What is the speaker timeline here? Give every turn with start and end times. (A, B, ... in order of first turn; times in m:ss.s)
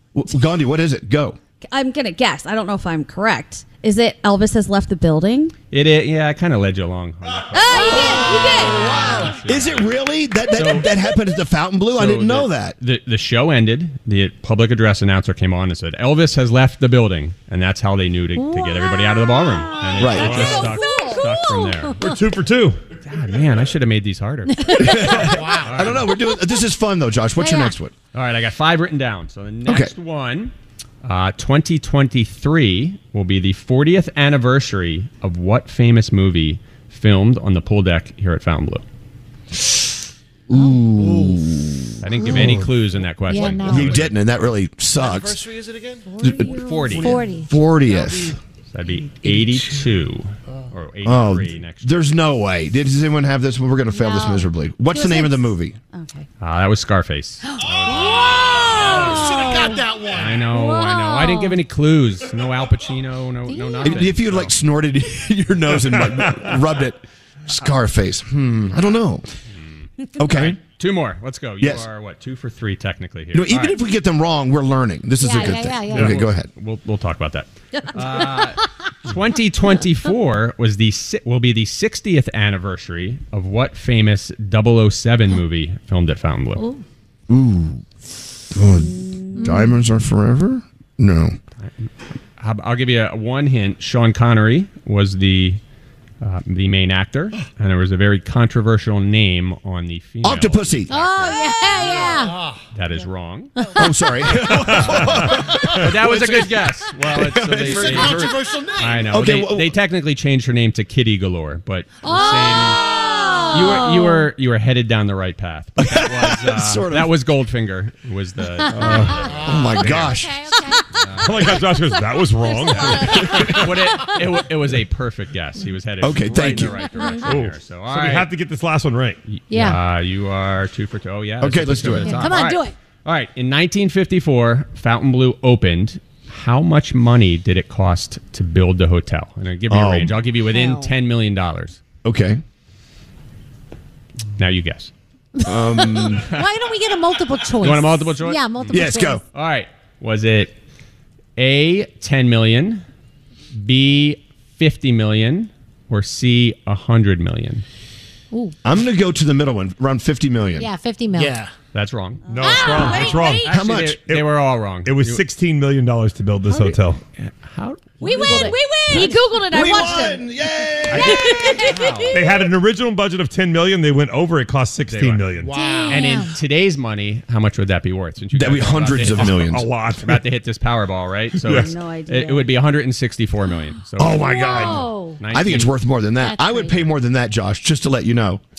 0:00.1-0:01.4 A
0:01.7-0:05.5 B
0:05.7-0:10.9 C
0:07.6-0:08.9 D
0:07.6-0:09.1 B
0:07.8-0:12.8 A
0:11.9-0:22.0 C
0:18.4-0:22.2 D
0:20.0-0:20.6 A
0:20.0-0:20.8 E
0:22.0-0:22.8 E
0:23.0-0:26.1 C
0:24.6-0:25.2 D
0:24.8-0:28.0 A
0:27.4-0:27.7 D
0:28.1-0:30.5 C
0:29.7-0:29.9 A
0:31.0-0:38.8 C
0:40.5-0:42.6 A
0:42.0-0:44.2 C
0:43.3-0:44.0 D
0:43.6-0:45.4 A
0:45.6-0:46.1 F
0:46.2-0:46.7 A
0:46.5-0:47.2 C
0:47.0-0:47.5 D
0:47.2-0:48.4 A
0:48.7-0:52.1 C
0:51.0-0:55.8 A
0:53.9-0:55.4 D
0:55.9-0:56.3 B
0:56.4-0:59.0 C
0:57.5-0:59.8 D
0:58.9-1:00.4 F
1:00.1-1:04.6 C
1:00.5-1:01.6 D
1:03.5-1:04.1 D
1:03.8-1:09.2 A
1:05.8-1:06.5 E
1:09.5-1:13.8 C
1:10.2-1:10.6 A
1:11.6-1:11.9 A
1:13.3-1:16.5 A
1:15.2-1:16.2 D
1:15.9-1:16.2 E
1:16.1-1:26.6 C
1:27.3-1:27.8 A
1:28.5-1:31.4 A
1:29.4-1:29.7 D
1:31.6-1:35.6 C
1:36.2-1:41.5 C
1:40.2-1:40.9 A
1:40.9-1:42.4 D
1:42.7-1:43.5 C
1:43.8-1:48.3 A
1:44.4-1:45.3 E
1:44.6-1:52.8 C
1:48.1-1:48.9 F
1:49.1-1:49.7 A
1:52.0-1:54.3 D
1:53.5-2:00.1 C
1:55.8-1:57.2 A
1:58.7-1:59.3 D
1:58.7-2:00.1 E
1:59.4-2:00.4 A
2:00.0-2:00.9 D
2:01.0-2:01.5 C
2:01.2-2:03.7 E
2:01.9-2:04.2 D
2:02.7-2:08.3 C
2:06.0-2:06.8 A
2:06.3-2:09.2 E
2:06.7-2:07.3 D
2:09.3-2:21.8 C
2:09.5-2:09.8 D
2:11.4-2:12.3 A
2:12.0-2:12.7 D
2:19.7-2:20.2 A
2:20.5-2:20.9 D
2:22.0-2:22.4 A
2:24.4-2:24.9 C
2:25.4-2:29.2 D
2:25.5-2:26.3 A
2:27.6-2:30.5 C
2:28.7-2:29.2 A
2:31.4-2:32.8 C
2:33.5-2:37.6 C
2:38.6-2:40.7 A
2:40.6-2:41.4 D
2:41.7-2:45.2 C
2:42.2-2:47.0 E
2:42.4-2:43.4 D
2:42.4-2:43.3 B
2:43.4-2:44.0 A
2:46.6-2:48.6 C
2:48.0-2:49.9 D
2:48.1-2:50.2 B
2:49.5-2:51.8 A
2:50.9-2:52.2 C
2:51.0-2:51.5 D
2:52.1-2:55.6 E
2:54.9-3:05.8 C
2:55.5-2:56.3 D
2:58.3-2:59.7 A
2:59.4-3:00.2 E
3:01.4-3:01.7 E
3:01.5-3:02.5 B
3:04.0-3:04.8 E
3:04.2-3:05.2 D
3:05.3-3:08.4 A
3:06.2-3:06.8 D